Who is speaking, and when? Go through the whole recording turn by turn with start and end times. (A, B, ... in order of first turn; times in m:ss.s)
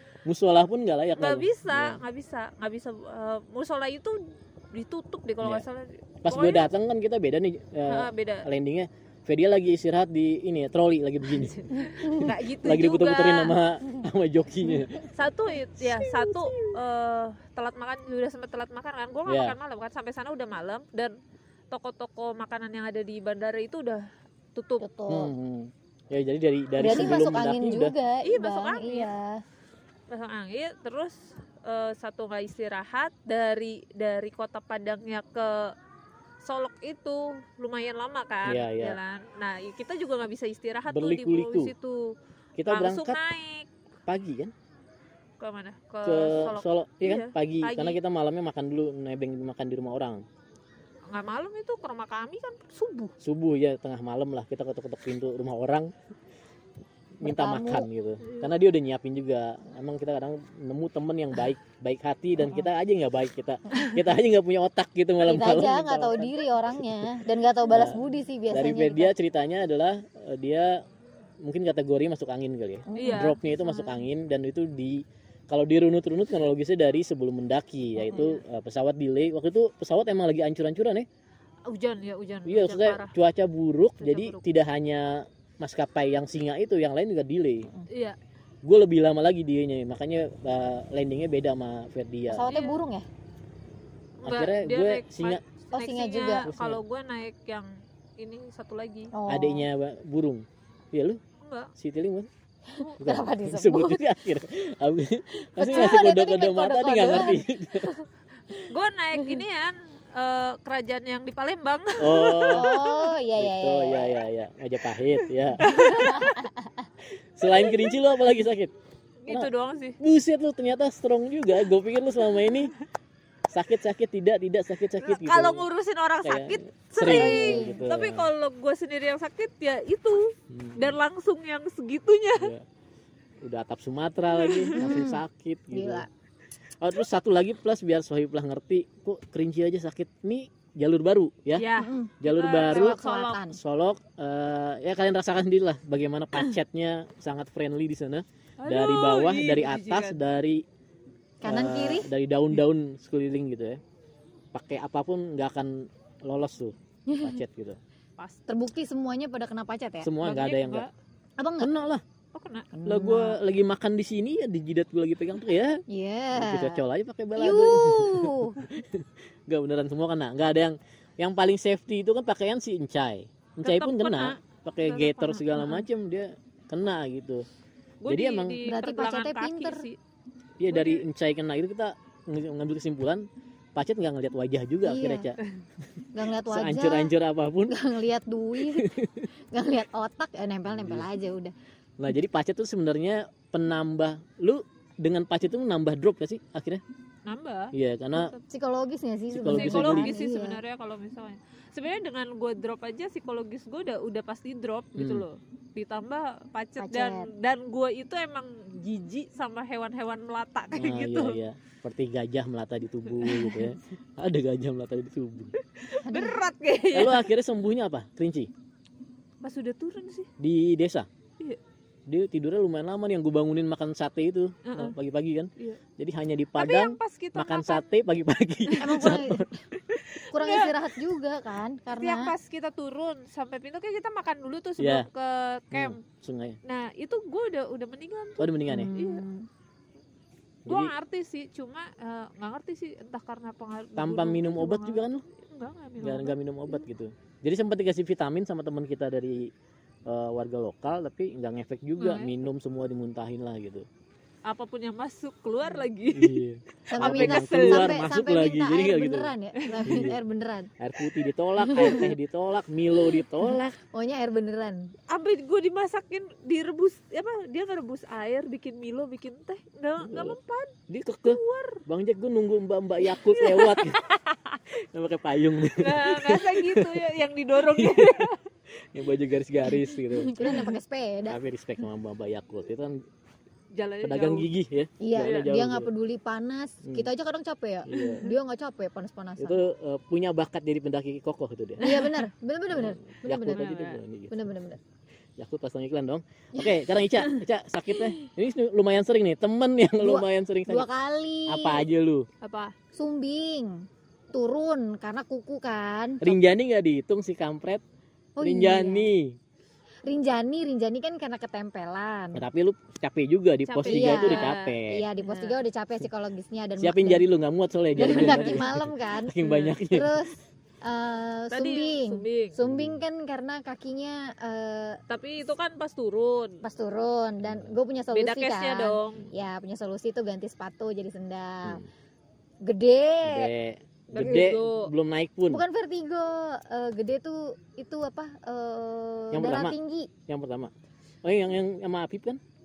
0:00.2-0:02.0 A
0:01.2-0:06.7 B
0:05.4-0:05.7 A
0:06.2-0:15.1 A
0:07.9-0:08.5 B
0:11.7-0:13.6 B
0:15.2-0:21.2 B
0:19.3-0:19.6 A
0:21.7-0:24.8 B
0:24.8-0:25.3 C
0:25.1-0:27.9 A
0:26.8-0:29.4 C
0:28.2-0:29.1 B
0:30.1-0:35.7 B
0:36.4-0:42.2 B
0:38.4-0:39.0 A
0:40.9-0:41.7 A
0:42.6-0:43.2 A
0:42.7-0:43.7 B
0:44.1-0:44.5 A
0:45.4-0:48.0 B
0:46.0-0:50.2 A
0:51.1-0:53.1 B
0:53.2-0:55.9 A
0:57.2-1:06.8 A
0:57.2-0:57.9 C
1:05.2-1:09.1 C
1:07.7-1:10.8 A
1:11.4-1:21.1 A
1:12.9-1:14.0 C
1:13.0-1:13.4 B
1:21.7-1:23.2 B
1:22.4-1:27.7 A
1:24.0-1:24.4 B
1:27.9-1:28.2 B
1:28.6-1:32.5 A
1:32.3-1:33.1 C
1:32.5-1:32.8 B
1:34.2-1:39.1 B
1:34.2-1:35.4 A
1:35.7-1:36.5 C
1:36.4-1:36.8 A
1:39.1-1:39.7 C
1:39.3-1:41.2 A
1:41.4-1:41.7 B
1:41.8-1:42.3 A
1:42.7-1:44.0 C
1:42.8-1:43.2 B
1:43.0-1:47.9 A
1:45.6-1:48.6 C
1:45.6-1:46.0 B
1:48.7-1:53.1 B
1:52.0-1:52.8 A
1:52.5-1:54.2 C
1:53.4-1:56.0 A
1:55.6-1:56.5 B
1:55.7-1:56.7 C
1:57.4-1:58.7 A
1:57.4-1:57.9 B
1:59.2-2:00.0 B
1:59.3-2:02.7 A
2:03.5-2:05.7 A
2:05.0-2:12.5 B
2:06.2-2:08.3 A
2:07.0-2:07.9 C
2:10.5-2:11.0 A
2:12.4-2:12.6 A
2:13.4-2:16.1 A
2:14.3-2:14.8 B
2:14.8-2:16.1 C
2:16.8-2:21.7 A
2:21.6-2:23.4 B
2:21.8-2:23.6 C
2:22.2-2:30.6 A
2:28.6-2:30.2 B
2:31.4-2:32.1 C
2:31.4-2:33.8 A
2:34.5-2:37.8 A
2:37.1-2:37.4 C
2:38.5-2:40.1 C
2:40.0-2:40.9 A
2:40.2-2:40.9 B
2:41.4-2:41.7 C
2:41.6-2:42.0 A
2:42.3-2:42.7 B
2:42.7-2:43.4 C
2:42.8-2:45.8 A
2:45.9-2:46.8 C
2:46.4-2:57.5 A
2:47.4-2:48.6 C
2:53.6-2:55.8 B
2:58.0-3:00.0 B
2:58.1-2:58.6 A
2:58.6-2:59.9 C
3:00.6-3:05.4 A
3:00.7-3:01.1 B
3:04.8-3:05.3 C
3:06.1-3:07.1 C
3:06.5-3:07.9 A
3:07.7-3:08.9 C
3:08.8-3:09.3 A
3:09.5-3:11.5 C
3:10.7-3:11.1 A
3:12.0-3:16.8 A
3:17.2-3:18.4 B
3:17.7-3:18.4 A
3:18.5-3:20.6 C
3:19.3-3:20.1 A
3:19.5-3:31.4 B
3:25.0-3:25.2 A
3:26.8-3:27.3 C
3:30.8-3:35.6 A
3:33.1-3:33.8 B
3:35.8-3:37.3 B
3:36.0-3:36.4 C
3:36.9-3:38.5 A
3:39.4-3:40.3 B
3:40.4-3:41.1 A
3:42.1-3:49.8 A
3:44.6-3:45.0 B
3:46.6-3:47.9 B
3:48.7-3:49.1 B
3:48.8-3:49.6 C
3:49.9-3:50.8 B
3:50.3-3:52.3 C
3:52.0-3:56.0 B
3:54.8-3:55.1 A
3:55.7-3:56.6 A
3:56.6-3:59.3 B
3:58.4-3:58.9 A
3:58.7-3:59.5 C
4:00.7-4:00.9 A
4:00.7-4:06.4 B
4:04.0-4:05.2 A
4:06.0-4:09.5 A
4:10.1-4:13.9 A
4:12.0-4:12.4 B
4:14.5-4:16.4 B
4:16.1-4:19.3 A
4:16.9-4:20.7 C
4:16.9-4:18.0 B
4:19.9-4:20.2 A
4:20.8-4:23.8 A
4:21.7-4:22.1 C
4:23.9-4:24.9 C
4:25.1-4:30.7 B
4:30.0-4:30.4 A
4:30.9-4:34.0 A
4:31.2-4:31.8 B
4:33.0-4:34.6 B
4:34.7-4:37.1 A
4:35.8-4:38.4 B
4:37.6-4:38.3 A
4:38.9-4:40.5 A
4:40.2-4:41.4 C
4:41.3-4:43.0 A
4:43.7-4:44.5 B
4:44.0-4:45.9 A
4:45.0-4:49.6 C
4:45.2-4:45.5 B
4:46.8-4:47.1 A
4:47.9-4:48.3 A
4:49.4-4:51.8 A
4:51.8-4:52.2 B
4:51.8-4:53.7 C
4:52.7-4:54.6 A
4:53.5-4:54.0 B
4:54.3-4:54.8 C
4:55.4-5:00.9 A
5:00.0-5:01.8 C
5:01.5-5:02.3 A
5:02.4-5:02.8 B
5:03.0-5:06.4 C
5:06.2-5:07.8 A
5:08.4-5:09.1 C
5:08.4-5:09.4 A
5:10.1-5:12.4 C
5:12.4-5:15.0 A
5:13.7-5:15.6 B
5:13.8-5:17.3 C
5:16.8-5:20.2 A
5:18.0-5:19.4 C
5:18.0-5:18.6 B
5:19.4-5:19.8 B
5:19.9-5:25.0 C
5:21.5-5:22.6 B
5:22.6-5:23.0 A
5:25.1-5:26.6 B
5:26.6-5:31.8 C
5:27.4-5:27.8 A
5:28.1-5:29.3 B
5:32.6-5:33.5 C
5:33.3-5:35.6 A
5:34.1-5:34.9 B
5:34.2-5:34.5 C
5:35.5-5:40.1 C
5:39.3-5:39.8 A
5:40.3-5:40.7 A
5:41.2-5:42.4 A